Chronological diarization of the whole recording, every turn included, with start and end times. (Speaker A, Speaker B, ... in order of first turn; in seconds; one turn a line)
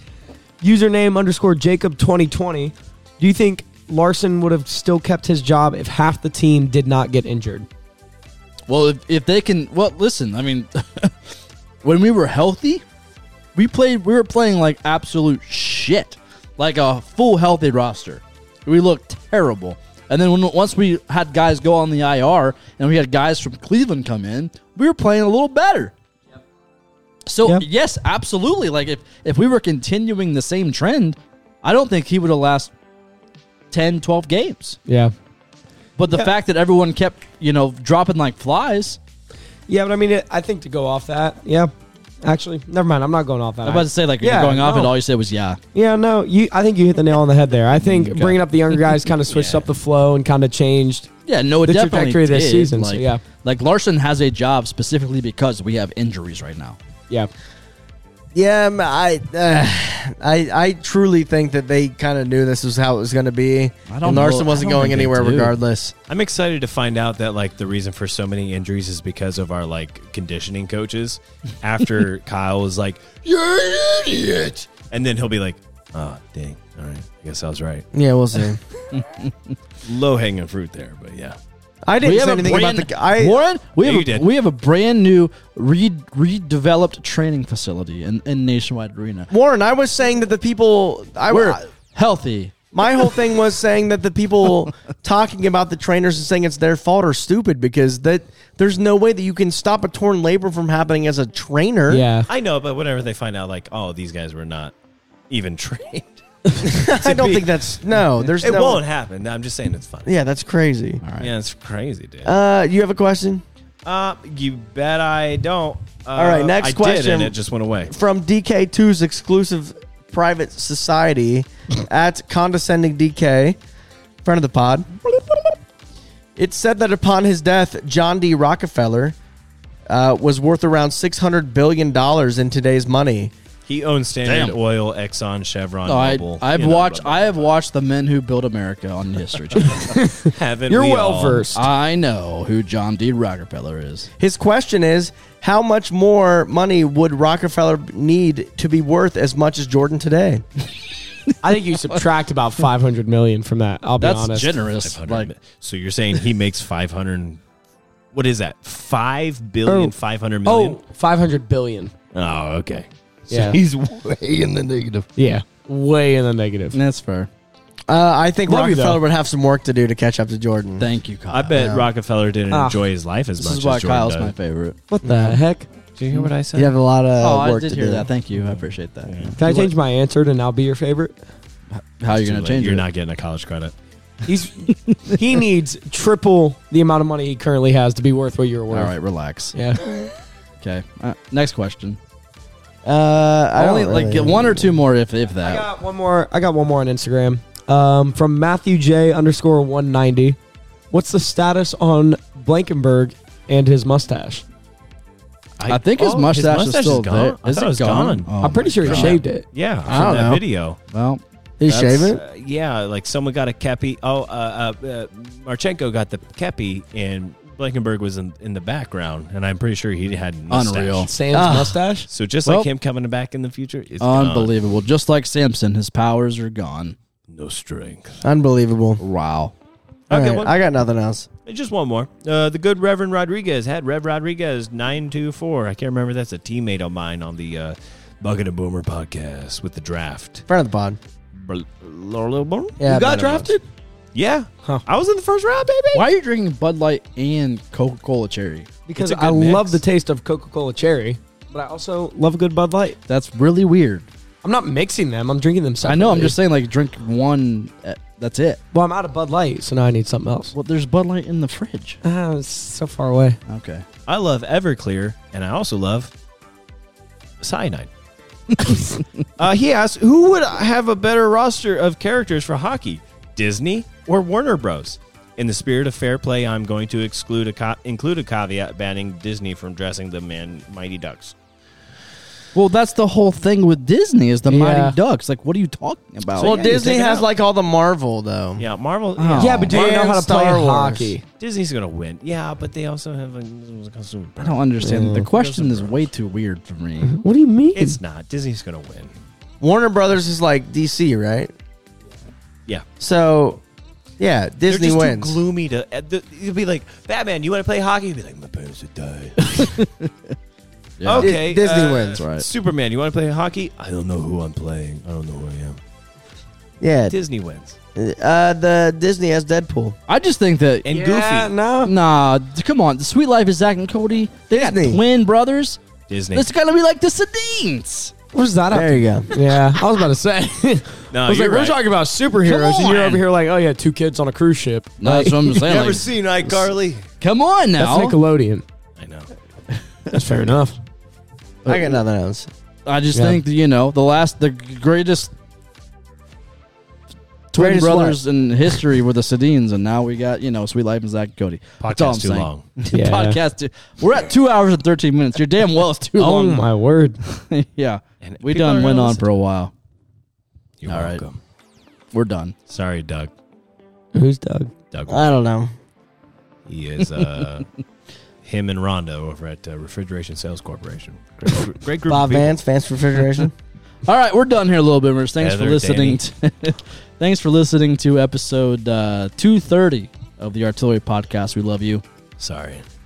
Speaker A: 0.6-7.7
Speaker B: 8.7-11.3
Speaker B: 11.8-12.8
Speaker B: 13.6-25.9
Speaker B: 27.3-32.7
Speaker B: 33.7-34.8
Speaker A: 34.9-35.1
Speaker B: 36.0-39.0
Speaker A: 39.7-41.7
Speaker A: 42.2-45.0
Speaker B: 43.6-45.6
Speaker A: 45.7-51.1
Speaker B: 47.8-48.4
Speaker C: 49.3-49.7
Speaker B: 51.3-56.8
Speaker A: 51.6-53.2
Speaker D: 58.3-66.0
Speaker B: 63.9-65.5
Speaker C: 66.1-77.9
Speaker D: 77.9-78.6
Speaker B: 78.9-79.6
Speaker C: 79.8-81.4
Speaker D: 81.8-83.4
Speaker B: 82.0-89.3
Speaker C: 83.8-84.3
Speaker D: 89.3-91.6
Speaker B: 91.3-92.5
Speaker D: 92.7-102.1
Speaker A: 101.9-102.3
Speaker C: 102.3-104.7
Speaker C: 105.3-110.1
Speaker D: 106.7-108.8
Speaker D: 110.1-111.0
Speaker B: 111.0-111.3
Speaker C: 111.2-112.4
Speaker D: 112.2-113.4
Speaker C: 113.8-117.9
Speaker D: 116.2-117.4
Speaker D: 117.9-123.6
Speaker D: 124.2-124.9
Speaker D: 126.4-129.2
Speaker D: 129.9-133.3
Speaker C: 133.7-137.5
Speaker B: 134.3-134.6
Speaker B: 135.9-140.0
Speaker C: 139.6-141.5
Speaker A: 139.8-141.7
Speaker B: 141.5-144.1
Speaker D: 144.2-150.4
Speaker A: 151.4-154.6
Speaker B: 154.0-155.3
Speaker C: 154.8-157.4
Speaker C: 158.1-160.8
Speaker A: 159.7-159.9
Speaker A: 160.4-161.9
Speaker C: 162.1-165.1
Speaker A: 163.3-163.6
Speaker A: 165.2-166.8
Speaker B: 166.7-167.3
Speaker D: 167.9-170.9
Speaker A: 168.5-169.0
Speaker B: 170.8-171.6
Speaker C: 171.3-174.3
Speaker D: 171.5-171.9
Speaker A: 172.5-172.8
Speaker B: 173.4-174.8
Speaker A: 174.9-175.7
Speaker D: 175.0-175.4
Speaker C: 176.0-176.7
Speaker D: 176.6-178.1
Speaker B: 177.2-179.7
Speaker C: 179.1-179.3
Speaker A: 179.4-181.2
Speaker B: 181.7-182.9
Speaker C: 182.1-183.7
Speaker A: 184.2-188.9
Speaker B: 188.7-189.6
Speaker A: 189.5-189.9
Speaker B: 190.6-192.0
Speaker D: 192.8-194.8
Speaker B: 193.6-195.7
Speaker A: 195.4-200.4
Speaker A: 200.9-204.4
Speaker C: 205.6-210.8
Speaker B: 205.7-209.2
Speaker A: 208.4-209.4
Speaker D: 209.9-210.4
Speaker B: 210.9-212.1
Speaker D: 211.6-212.2
Speaker C: 212.0-221.1
Speaker B: 220.5-221.1
Speaker A: 221.1-222.1
Speaker D: 221.3-221.8
Speaker C: 222.1-224.5
Speaker B: 224.0-227.0
Speaker C: 227.3-228.2
Speaker D: 228.2-229.0
Speaker B: 229.0-229.5
Speaker C: 230.1-230.6
Speaker D: 230.1-231.3
Speaker C: 231.5-240.5
Speaker D: 240.5-241.0
Speaker C: 241.4-243.4
Speaker D: 242.8-243.5
Speaker A: 242.9-243.6
Speaker C: 244.2-246.0
Speaker B: 245.9-248.7
Speaker A: 248.9-253.0
Speaker C: 248.9-249.8
Speaker B: 253.1-254.1
Speaker A: 254.4-256.4
Speaker B: 255.8-258.6
Speaker A: 258.7-260.5
Speaker B: 260.5-262.0
Speaker A: 262.0-263.4
Speaker B: 263.5-263.9
Speaker C: 264.1-266.1
Speaker C: 267.4-267.9
Speaker C: 269.4-281.4
Speaker B: 282.5-286.6
Speaker A: 284.5-285.0
Speaker D: 286.4-288.6
Speaker C: 286.4-287.3
Speaker C: 288.6-290.0
Speaker B: 289.2-289.7
Speaker A: 289.4-291.2
Speaker D: 289.7-291.1
Speaker C: 291.4-294.6
Speaker B: 294.4-297.2
Speaker A: 294.8-295.3
Speaker C: 295.3-296.1
Speaker A: 297.0-298.0
Speaker C: 297.8-299.1
Speaker D: 299.6-301.5
Speaker D: 303.0-303.6
Speaker D: 304.2-305.4
Speaker C: 304.7-309.7
Speaker B: 309.4-310.4
Speaker B: 311.0-311.3
Speaker C: 311.0-315.8
Speaker D: 311.2-312.2
Speaker B: 312.2-312.5
Speaker D: 316.8-317.2
Speaker C: 317.1-317.8
Speaker D: 317.9-320.0
Speaker B: 320.1-320.9
Speaker C: 320.9-321.5
Speaker A: 320.9-321.9
Speaker B: 321.9-325.8
Speaker D: 324.5-325.0
Speaker C: 326.1-326.5
Speaker B: 326.3-328.1
Speaker A: 328.3-335.6
Speaker D: 328.7-329.4
Speaker C: 331.1-331.8
Speaker B: 332.4-333.2
Speaker B: 335.0-336.1
Speaker C: 335.6-337.1
Speaker B: 337.2-338.2
Speaker A: 337.8-338.6
Speaker C: 339.0-339.3
Speaker A: 340.1-340.8
Speaker B: 341.6-341.9
Speaker D: 341.7-342.5
Speaker B: 342.9-345.3
Speaker A: 343.1-343.4
Speaker B: 347.5-356.7
Speaker D: 347.6-348.2
Speaker C: 351.8-352.7
Speaker A: 352.9-353.4
Speaker A: 356.2-357.2
Speaker B: 357.2-359.7
Speaker C: 358.2-359.2
Speaker C: 360.8-361.4
Speaker B: 360.9-361.2
Speaker B: 362.1-362.6
Speaker C: 362.7-363.3
Speaker A: 364.1-364.7
Speaker C: 364.9-365.2
Speaker D: 365.1-365.7
Speaker C: 366.7-367.7
Speaker C: 368.4-372.6
Speaker D: 372.1-373.5
Speaker B: 374.1-382.0
Speaker C: 375.4-376.2
Speaker C: 382.4-382.9